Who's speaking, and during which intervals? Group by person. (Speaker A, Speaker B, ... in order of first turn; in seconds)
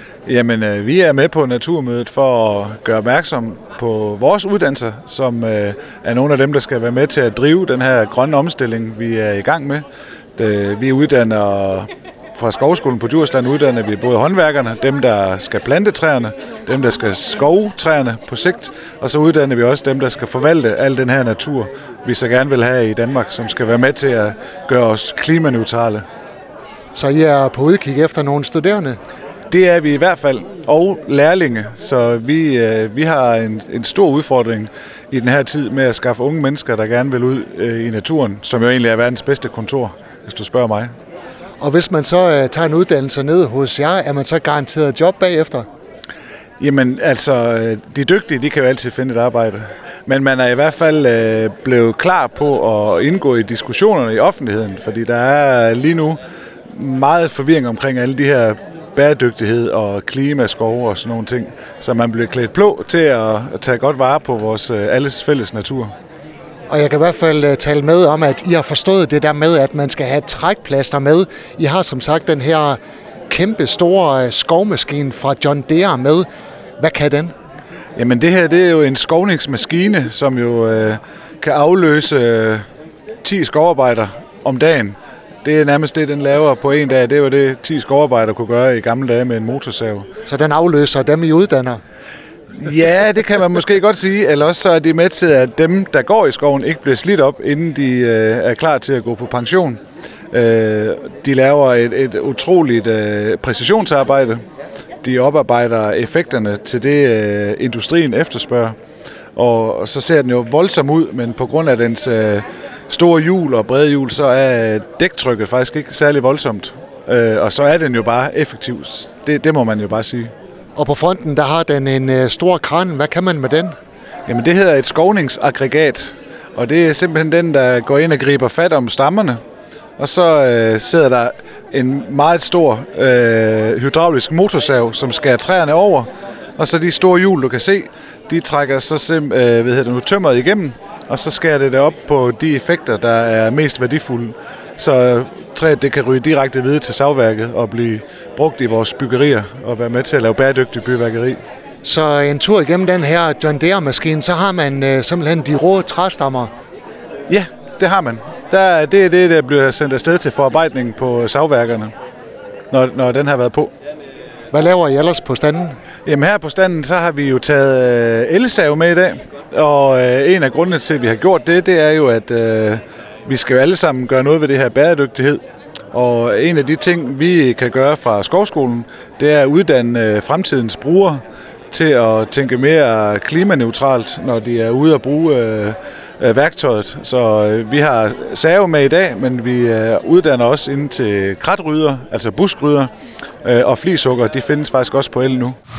Speaker A: 0.2-9.8, 10.4-26.0, 29.5-40.9, 46.6-56.2, 56.7-65.9, 78.0-82.6, 83.2-90.1, 92.5-99.8, 100.3-104.4, 105.0-108.7, 109.3-120.3, 124.2-129.4, 130.0-151.4, 157.3-161.9, 162.7-163.7, 166.1-175.4, 175.9-192.9, 193.4-195.6
Speaker B: 26.9-29.0, 41.6-45.7, 66.7-76.2, 76.8-77.3, 90.2-91.8, 120.8-123.7, 151.8-156.5, 164.5-165.8